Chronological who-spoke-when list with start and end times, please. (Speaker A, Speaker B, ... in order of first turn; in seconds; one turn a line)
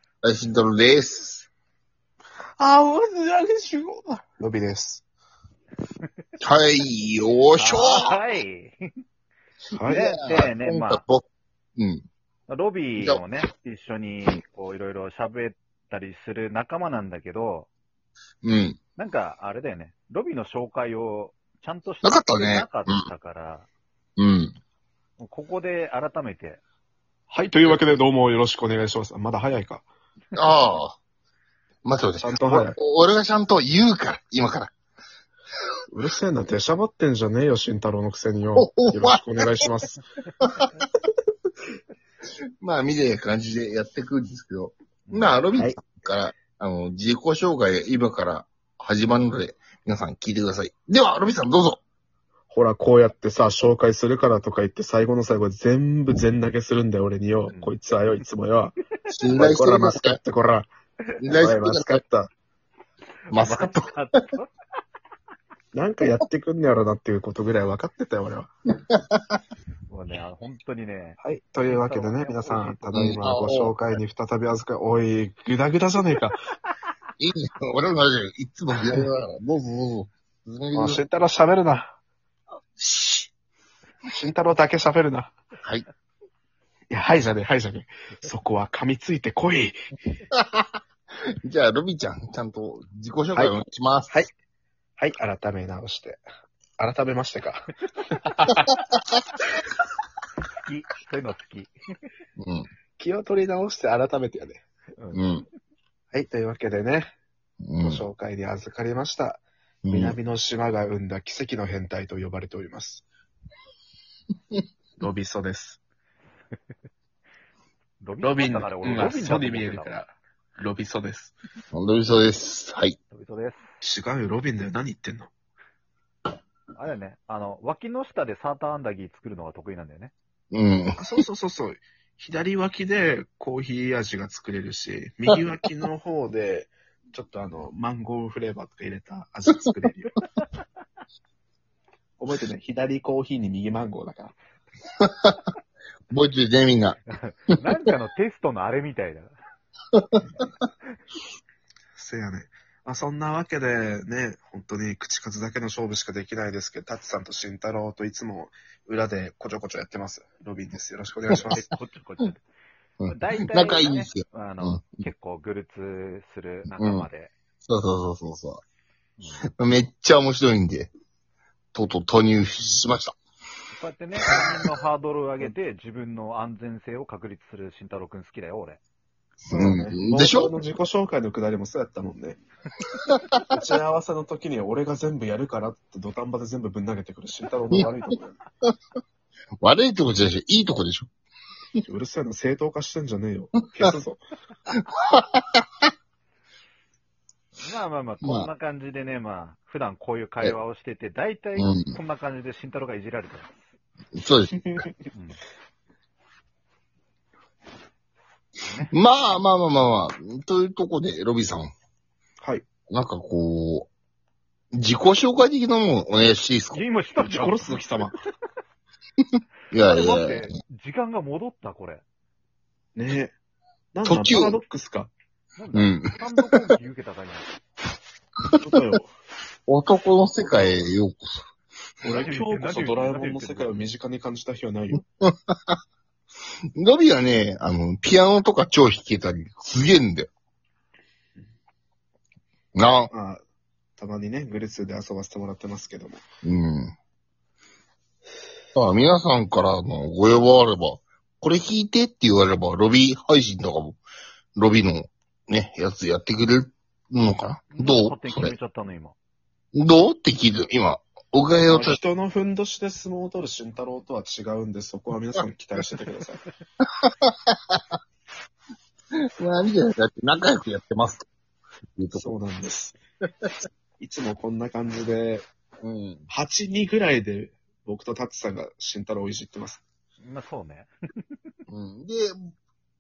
Speaker A: 0.2-1.5
Speaker B: 2.6-5.0
Speaker A: 6.4-8.2
Speaker C: 7.6-8.8
Speaker B: 9.7-10.1
Speaker C: 9.8-11.0
Speaker A: 9.9-11.2
Speaker A: 11.8-12.0
Speaker C: 12.5-17.7
Speaker A: 13.0-13.3
Speaker A: 18.4-18.8
Speaker C: 18.9-23.7
Speaker A: 22.0-23.1
Speaker A: 24.2-24.5
Speaker C: 25.2-26.6
Speaker B: 27.3-29.8
Speaker A: 30.3-31.0
Speaker A: 31.8-34.7
Speaker B: 32.1-32.8
Speaker B: 35.9-40.0
Speaker A: 38.5-39.7
Speaker A: 40.4-40.6
Speaker A: 42.6-51.8
Speaker C: 45.1-45.4
Speaker B: 45.5-45.8
Speaker B: 52.5-58.8
Speaker C: 57.5-57.8
Speaker A: 59.1-60.2
Speaker B: 59.3-60.7
Speaker A: 61.2-62.0
Speaker B: 61.3-62.3
Speaker A: 63.3-63.9
Speaker C: 63.3-64.5
Speaker B: 65.7-68.5
Speaker A: 68.9-69.4
Speaker C: 69.9-73.1
Speaker B: 71.2-76.4
Speaker A: 72.9-73.7
Speaker A: 77.2-81.0
Speaker B: 80.7-81.9
Speaker A: 82.8-83.3
Speaker B: 84.1-85.3
Speaker B: 86.9-89.8
Speaker A: 90.3-90.6
Speaker A: 91.4-94.2
Speaker B: 95.0-96.2
Speaker B: 96.8-98.5
Speaker C: 100.5-101.7
Speaker A: 102.4-102.7
Speaker B: 103.0-104.6
Speaker C: 105.0-105.2
Speaker A: 105.1-105.5
Speaker B: 106.1-107.1
Speaker A: 107.6-108.0
Speaker B: 107.8-113.0
Speaker A: 109.8-110.2
Speaker B: 115.0-115.8
Speaker C: 118.0-120.0
Speaker B: 118.2-121.3
Speaker A: 121.7-123.0
Speaker C: 123.1-123.7
Speaker B: 123.8-125.3
Speaker C: 126.7-130.1
Speaker A: 130.5-131.0
Speaker B: 131.0-140.2
Speaker B: 142.2-144.3
Speaker A: 145.0-145.4
Speaker A: 146.1-147.0
Speaker C: 147.1-149.3
Speaker A: 149.9-150.2
Speaker B: 151.9-161.7
Speaker C: 161.4-162.4
Speaker A: 163.0-165.1
Speaker C: 163.1-167.3
Speaker A: 166.7-167.1
Speaker A: 167.6-168.6
Speaker C: 169.2-169.4
Speaker A: 169.6-170.9
Speaker A: 171.7-173.1
Speaker C: 173.7-178.8
Speaker B: 179.5-182.4
Speaker A: 179.5-180.5
Speaker C: 183.1-183.4
Speaker B: 183.5-188.4
Speaker A: 189.6-191.1
Speaker B: 191.8-194.2
Speaker A: 194.7-195.9
Speaker C: 197.6-203.7
Speaker A: 198.2-198.5
Speaker A: 201.6-201.9
Speaker A: 204.1-204.7
Speaker C: 205.1-205.4
Speaker C: 208.6-208.9
Speaker A: 208.9-211.7
Speaker A: 212.9-213.9
Speaker A: 214.7-216.8
Speaker C: 216.7-218.2
Speaker B: 217.2-218.1
Speaker A: 219.7-220.5
Speaker C: 219.8-222.0
Speaker B: 222.9-223.3
Speaker B: 223.9-225.1
Speaker A: 224.0-224.6
Speaker C: 225.6-227.5
Speaker A: 225.7-226.5
Speaker B: 228.6-229.1
Speaker A: 229.7-231.4
Speaker B: 232.0-235.1
Speaker C: 232.1-233.8
Speaker A: 235.2-235.8
Speaker A: 236.7-240.3
Speaker A: 242.7-243.1
Speaker B: 243.1-243.4
Speaker B: 244.0-246.2
Speaker A: 246.4-246.9
Speaker A: 248.7-254.0
Speaker A: 254.6-258.5
Speaker C: 257.7-259.1
Speaker A: 259.7-262.0
Speaker B: 261.6-266.4
Speaker A: 267.0-267.9
Speaker A: 269.1-271.2
Speaker A: 272.0-272.4
Speaker B: 272.1-273.0
Speaker B: 274.0-275.4
Speaker A: 275.8-276.3
Speaker B: 276.3-279.8
Speaker C: 280.2-281.4
Speaker A: 281.7-282.5